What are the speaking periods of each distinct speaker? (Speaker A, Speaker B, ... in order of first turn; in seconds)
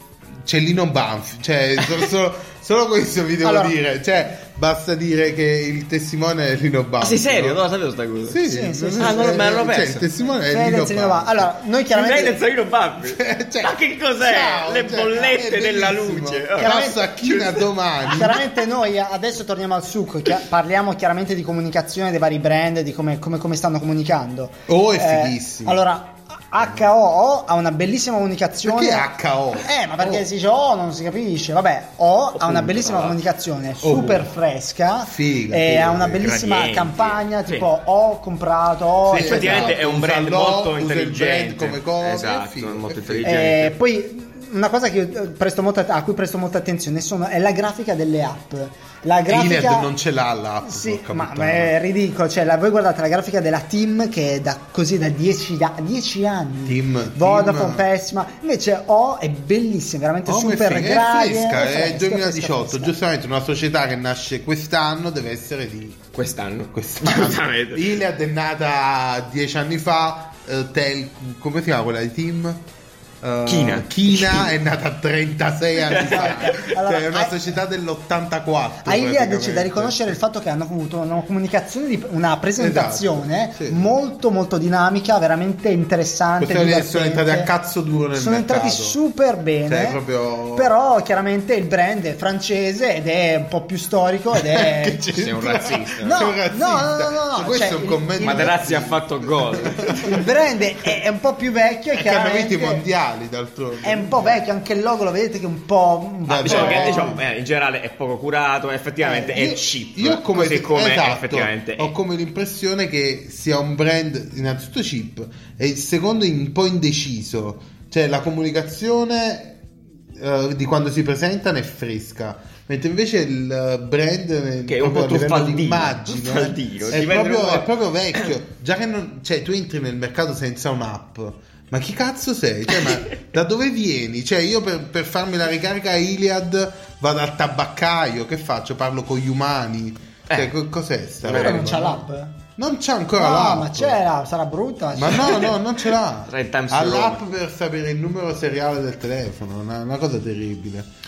Speaker A: 0.4-7.6, 8.2-11.5, 13.0-18.4, 24.7-25.8, 28.6-30.2, 33.8-34.3, 35.1-36.3, 39.1-43.5, 49.3-51.7, 56.6-57.8, 60.2-66.0, 66.7-72.6, 73.2-80.2, 82.6-83.9, 86.4-89.0, 89.7-90.7, 94.3-100.3, 101.9-104.4, 106.2-107.2, 109.3-119.6, 120.2-142.0, 142.6-144.0, 144.9-150.9
Speaker B: 3.4-3.8, 8.4-9.5, 10.5-12.4, 16.6-17.3, 18.1-39.8, 43.2-49.9, 50.6-62.9, 75.9-77.4, 78.8-87.5, 88.1-90.0, 90.5-95.0, 96.0-98.6, 99.9-102.8, 103.8-107.1, 109.0-109.3, 141.2-142.3, 143.2-145.5
Speaker C: 7.0-8.4, 9.0-10.1, 11.9-17.6, 32.3-33.2, 36.2-37.7, 39.1-43.7, 66.1-68.0, 73.5-74.5, 75.8-76.7, 95.1-96.2, 98.2-100.2, 106.4-111.9, 124.7-128.3, 140.3-140.5, 141.2-141.8, 146.3-147.2